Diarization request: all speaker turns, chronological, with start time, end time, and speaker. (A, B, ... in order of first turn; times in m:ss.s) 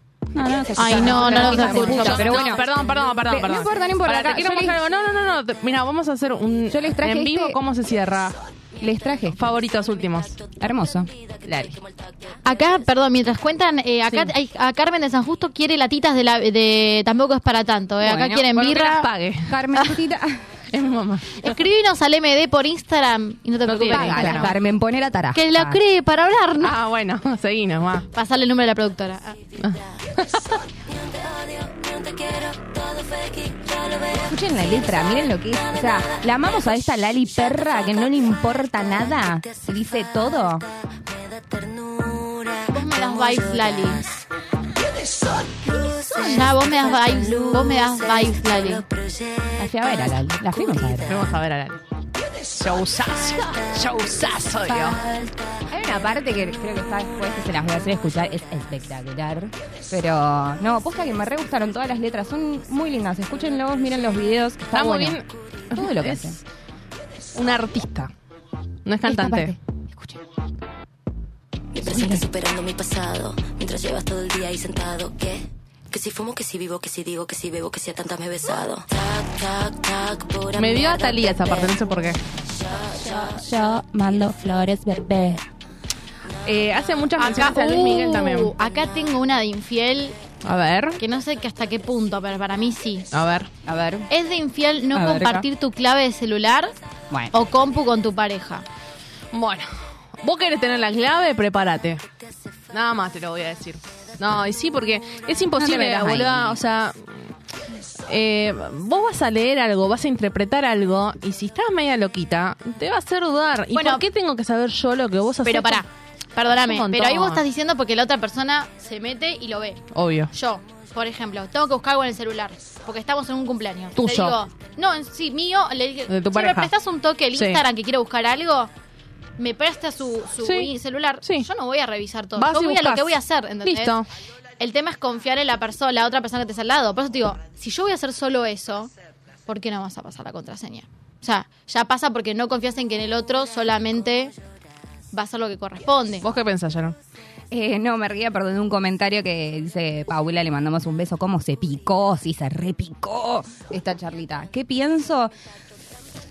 0:00.3-0:04.8 A
0:00.8-0:02.5 B
0:00.8-0:08.3 C
0:06.7-0:07.6 A
0:08.8-0:09.4 A
0:09.3-0:10.4 C
0:09.7-0:12.9 D
0:10.6-0:11.1 A
0:11.5-0:11.8 C
0:12.4-0:19.1 B
0:18.0-0:18.6 A
0:18.5-0:19.8 C
0:19.5-0:20.4 A
0:20.7-0:21.6 C
0:21.4-0:24.5 B
0:23.6-0:24.5 C
0:23.8-0:25.8 A
0:25.3-0:26.8 B
0:26.6-0:28.0 C
0:28.1-0:29.4 B
0:29.6-0:30.3 C
0:29.6-0:44.2 D
0:34.2-0:40.6 A
0:42.7-0:44.0 B
0:45.6-0:51.3 D
0:46.1-0:46.4 A
0:46.2-0:48.8 B
0:49.6-0:51.2 A
0:51.0-0:51.8 C
0:52.6-0:55.0 C
0:53.2-0:55.6 D
0:55.7-1:05.2 A
1:04.7-1:06.4 C
1:05.7-1:06.4 A
1:07.3-1:08.1 C
1:08.8-1:09.5 C
1:09.0-1:10.2 A
1:11.7-1:23.4 D
1:11.8-1:12.2 A
1:20.6-1:22.2 C
1:23.0-1:25.4 A
1:26.4-1:28.5 C
1:27.2-1:30.2 B
1:30.4-1:31.0 C
1:31.0-1:33.1 B
1:33.1-1:33.5 C
1:33.6-1:34.1 A
1:34.1-1:36.7 B
1:34.9-1:35.4 A
1:37.3-1:38.6 B
1:39.3-1:39.7 C
1:40.2-1:42.0 C
1:42.7-1:47.1 C
1:45.5-1:46.6 A
1:48.1-1:55.8 C
1:53.7-1:54.0 B
1:55.4-2:08.7 B
1:56.5-1:57.4 C
1:59.9-2:00.3 C
2:04.0-2:04.4 C
2:06.1-2:06.7 C
2:07.3-2:07.6 C
2:09.4-2:14.0 B
2:10.4-2:10.7 C
2:12.4-2:14.1 C
2:14.6-2:18.9 B
2:19.5-2:24.3 B
2:25.1-2:26.2 B
2:26.2-2:27.0 C
2:27.5-2:35.3 A